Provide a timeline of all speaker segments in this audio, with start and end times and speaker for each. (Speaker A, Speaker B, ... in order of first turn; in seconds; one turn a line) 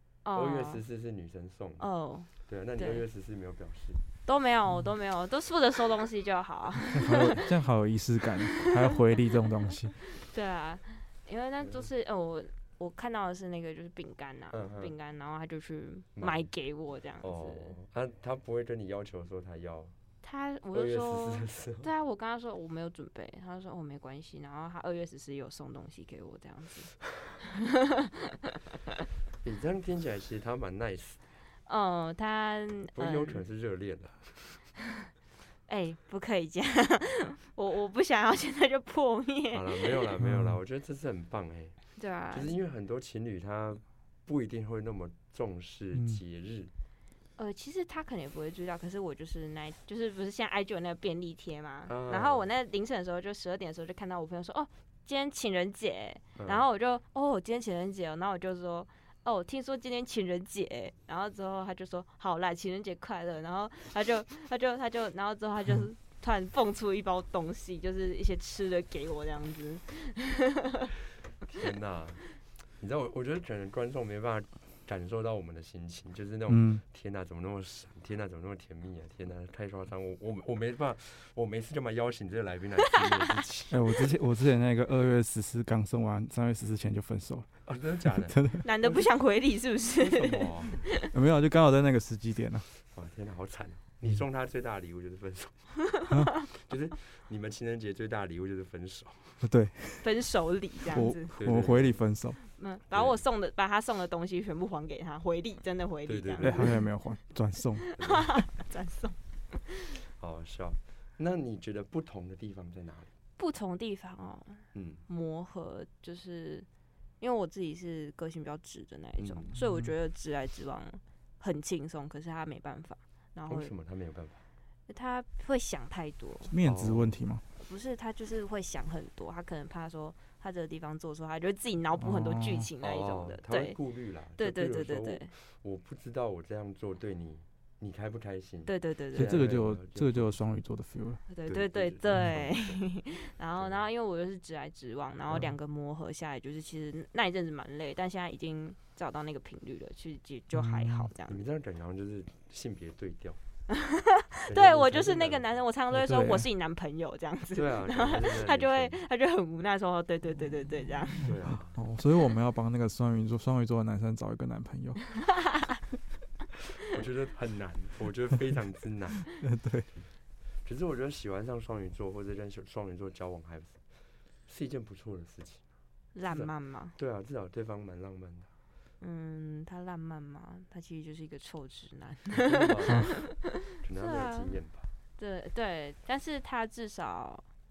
Speaker A: 0.2-0.8
Speaker B: 0.3-1.9
Speaker A: 1.8-3.0
Speaker B: 2.4-4.0
Speaker A: 4.2-7.5
Speaker C: 6.9-10.0
Speaker A: 10.2-17.8
Speaker B: 11.6-11.9
Speaker B: 14.5-14.9
Speaker B: 16.2-16.5
Speaker B: 17.2-19.9
Speaker A: 20.2-28.4
Speaker B: 20.7-21.9
Speaker B: 29.4-31.2
Speaker A: 31.7-33.4
Speaker B: 33.0-34.6
Speaker A: 35.7-40.1
Speaker B: 39.5-41.8
Speaker C: 40.2-40.6
Speaker A: 42.0-42.5
Speaker B: 42.3-46.7
Speaker C: 45.9-46.2
Speaker A: 47.4-70.9
Speaker B: 51.9-52.5
Speaker B: 56.4-56.6
Speaker B: 71.4-72.2
Speaker B: 72.8-83.8
Speaker C: 76.5-76.8
Speaker C: 83.7-87.5
Speaker B: 87.7-89.1
Speaker C: 88.2-88.6
Speaker A: 88.6-91.1
Speaker B: 90.0-90.8
Speaker C: 91.1-92.7
Speaker B: 92.9-95.7
Speaker B: 96.5-99.4
Speaker C: 99.4-100.1
Speaker A: 100.0-101.3
Speaker C: 100.9-102.4
Speaker B: 101.4-102.0
Speaker A: 102.5-107.0
Speaker B: 102.9-103.2
Speaker B: 106.1-106.8
Speaker C: 106.4-107.9
Speaker A: 107.8-109.9
Speaker B: 108.0-108.3
Speaker B: 110.1-113.1
Speaker A: 113.4-116.7
Speaker B: 114.7-115.0
Speaker A: 117.2-123.7
Speaker B: 119.2-119.5
Speaker C: 119.6-119.9
Speaker B: 123.5-124.4
Speaker A: 124.9-126.5
Speaker C: 126.5-127.4
Speaker B: 126.6-127.2
Speaker A: 127.6-133.8
Speaker C: 132.0-132.7
Speaker B: 132.8-140.4
Speaker A: 134.4-135.3
Speaker A: 138.7-139.4
Speaker C: 139.1-141.2
Speaker A: 141.3-151.4
Speaker B: 141.5-142.9
Speaker B: 143.6-143.8
Speaker C: 150.5-151.1
Speaker B: 151.3-153.4
Speaker A: 153.7-161.3
Speaker B: 154.5-155.4
Speaker C: 155.9-156.5
Speaker B: 157.5-159.0
Speaker B: 161.2-161.8
Speaker C: 161.7-165.2
Speaker B: 166.9-169.3
Speaker C: 169.4-169.9
Speaker B: 170.7-173.9
Speaker B: 174.4-175.7
Speaker A: 176.2-176.9
Speaker B: 176.3-178.5
Speaker A: 179.0-184.6
Speaker B: 182.3-184.9
Speaker A: 185.2-187.4